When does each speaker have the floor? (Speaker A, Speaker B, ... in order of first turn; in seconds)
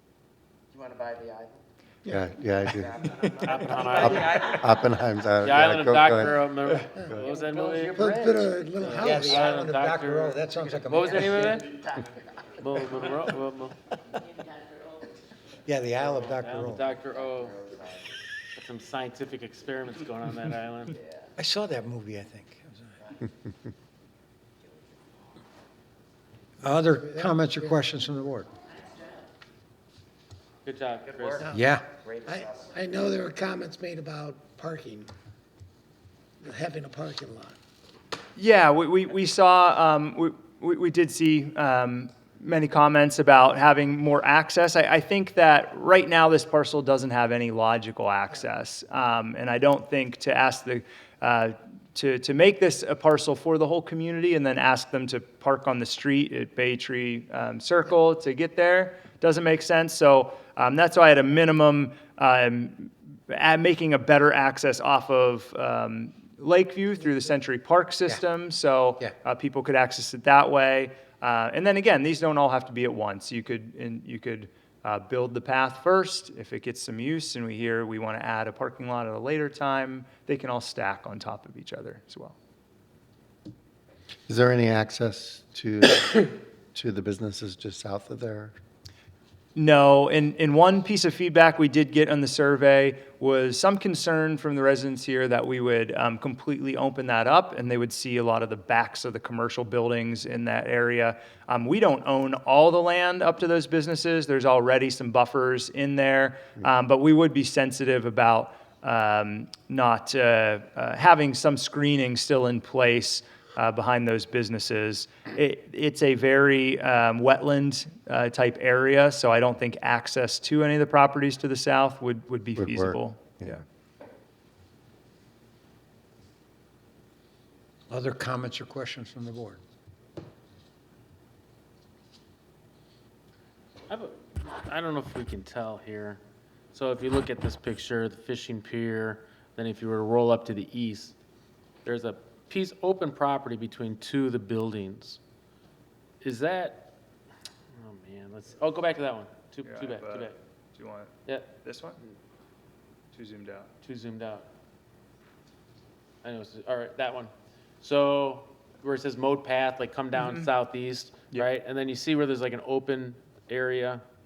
Speaker A: 0.7-1.6, 2.8-4.5, 17.5-18.0, 31.9-32.8
Speaker B: 2.0-6.4, 84.3-88.5, 122.6-123.6
Speaker C: 3.4-4.6, 5.4-11.8, 12.6-13.8, 16.1-17.7, 18.5-21.0, 30.6-31.5, 133.9-136.2, 136.7-141.1, 141.8-145.2, 146.2-146.9, 147.7-150.4, 153.8-154.5, 156.2-164.0
Speaker D: 7.9-9.3, 27.1-27.8, 32.2-35.1, 36.4-37.6
Speaker E: 8.9-11.7, 15.6-16.8, 21.4-23.0, 26.6-28.5, 31.5-31.9, 127.9-129.6
Speaker F: 38.4-82.4, 89.5-123.6, 149.6-152.0, 153.1-153.7, 160.1-160.5